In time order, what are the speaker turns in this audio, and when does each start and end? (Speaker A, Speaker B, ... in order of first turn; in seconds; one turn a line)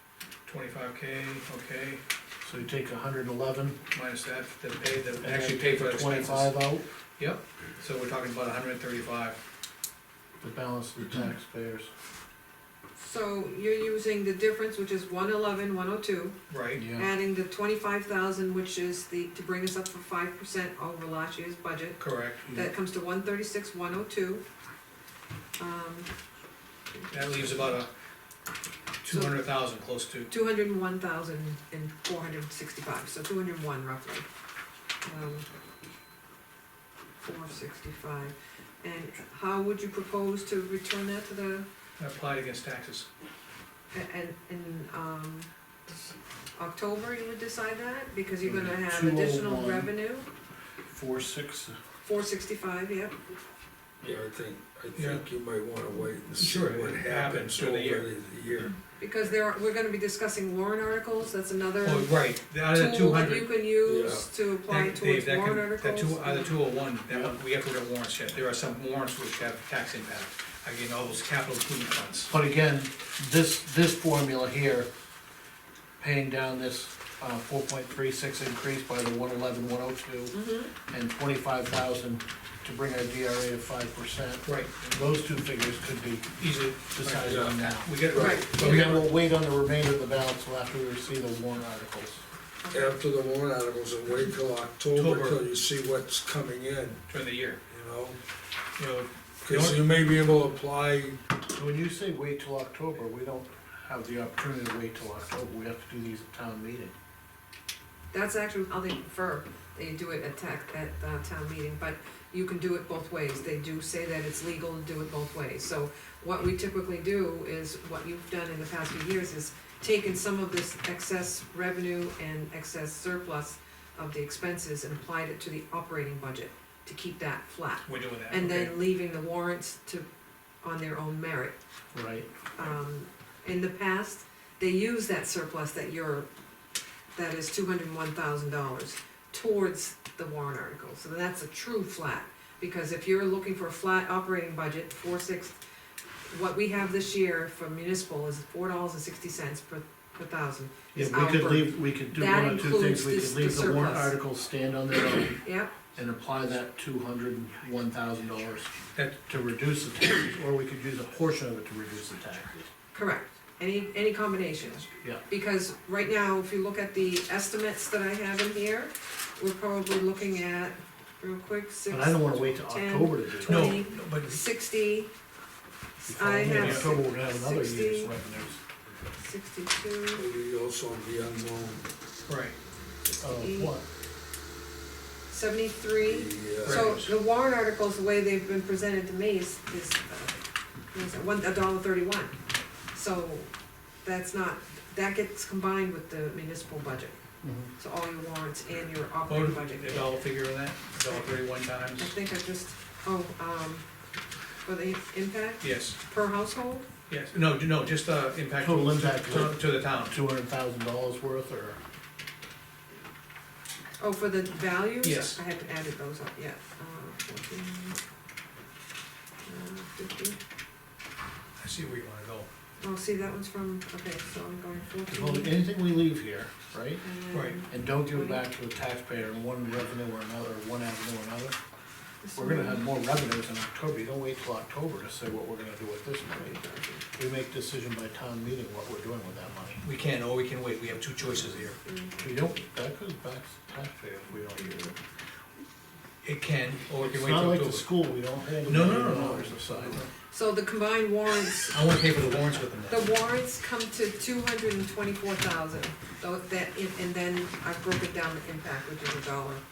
Speaker A: 0.5-2.0
Speaker B: 2.4-3.8
Speaker A: 3.9-6.5
Speaker B: 5.2-6.9
Speaker A: 7.2-9.4
Speaker B: 10.4-11.9
Speaker C: 13.0-24.4
Speaker A: 16.5-16.9
Speaker B: 16.7-17.1
Speaker A: 22.0-22.6
Speaker C: 25.6-26.1
Speaker C: 26.9-27.8
Speaker A: 27.1-27.9
Speaker A: 29.0-30.3
Speaker C: 29.1-29.4
Speaker C: 30.3-34.3
Speaker C: 35.0-35.5
Speaker C: 37.2-41.7
Speaker A: 42.0-43.1
Speaker C: 43.9-45.5
Speaker C: 46.5-50.3
Speaker B: 48.4-49.9
Speaker B: 50.9-51.8
Speaker C: 52.0-53.2
Speaker D: 54.0-58.8
Speaker A: 55.0-55.2
Speaker A: 56.4-58.1
Speaker C: 59.0-66.6
Speaker A: 61.8-63.7
Speaker D: 63.8-64.3
Speaker A: 64.7-72.3
Speaker B: 67.1-67.4
Speaker B: 72.3-74.9
Speaker B: 76.0-86.4
Speaker C: 80.3-80.7
Speaker A: 84.4-84.8
Speaker A: 86.4-89.1
Speaker B: 86.9-92.2
Speaker D: 87.2-87.6
Speaker D: 88.1-88.4
Speaker C: 88.2-88.8
Speaker C: 92.6-92.9
Speaker D: 92.7-97.0
Speaker A: 95.0-95.4
Speaker A: 97.1-97.6
Speaker D: 97.7-98.2
Speaker A: 98.8-99.9
Speaker D: 99.4-101.2
Speaker B: 101.5-107.0
Speaker C: 108.1-130.1
Speaker A: 127.9-128.8
Speaker C: 130.6-131.6
Speaker B: 131.9-132.3
Speaker C: 132.6-136.3
Speaker C: 137.2-145.6
Speaker C: 146.3-154.2
Speaker B: 150.9-155.4
Speaker C: 155.4-155.8
Speaker B: 155.9-158.7
Speaker B: 159.3-162.6
Speaker C: 162.9-175.1
Speaker B: 171.9-173.8
Speaker A: 173.5-174.4
Speaker C: 176.0-178.2
Speaker B: 176.1-178.6
Speaker A: 176.5-176.9
Speaker C: 179.1-180.3
Speaker D: 180.1-181.9
Speaker A: 182.3-182.6
Speaker C: 183.0-183.8
Speaker B: 183.2-183.8
Speaker C: 185.3-190.4
Speaker D: 186.0-186.9
Speaker A: 186.6-187.1
Speaker C: 190.9-192.4
Speaker C: 192.9-193.5
Speaker C: 194.0-197.2
Speaker B: 197.4-197.7
Speaker C: 197.8-200.2
Speaker A: 199.2-202.2
Speaker C: 201.1-203.9
Speaker C: 204.6-206.9
Speaker A: 205.6-206.0
Speaker A: 207.1-210.2
Speaker B: 208.6-211.8
Speaker C: 214.0-218.0
Speaker A: 215.0-215.4
Speaker C: 219.4-220.4
Speaker A: 221.6-222.5
Speaker C: 222.8-225.6
Speaker B: 225.1-227.0
Speaker C: 227.0-228.4
Speaker A: 227.3-227.6
Speaker B: 227.7-231.6
Speaker C: 232.2-232.8
Speaker B: 232.3-236.6
Speaker C: 236.3-237.1
Speaker B: 237.2-239.8
Speaker A: 239.8-241.8
Speaker C: 241.8-242.6
Speaker B: 242.2-244.9
Speaker C: 244.6-244.9
Speaker A: 246.2-247.9
Speaker B: 247.0-250.0
Speaker A: 248.6-250.1
Speaker C: 250.3-251.8
Speaker A: 251.7-253.1
Speaker C: 252.9-259.6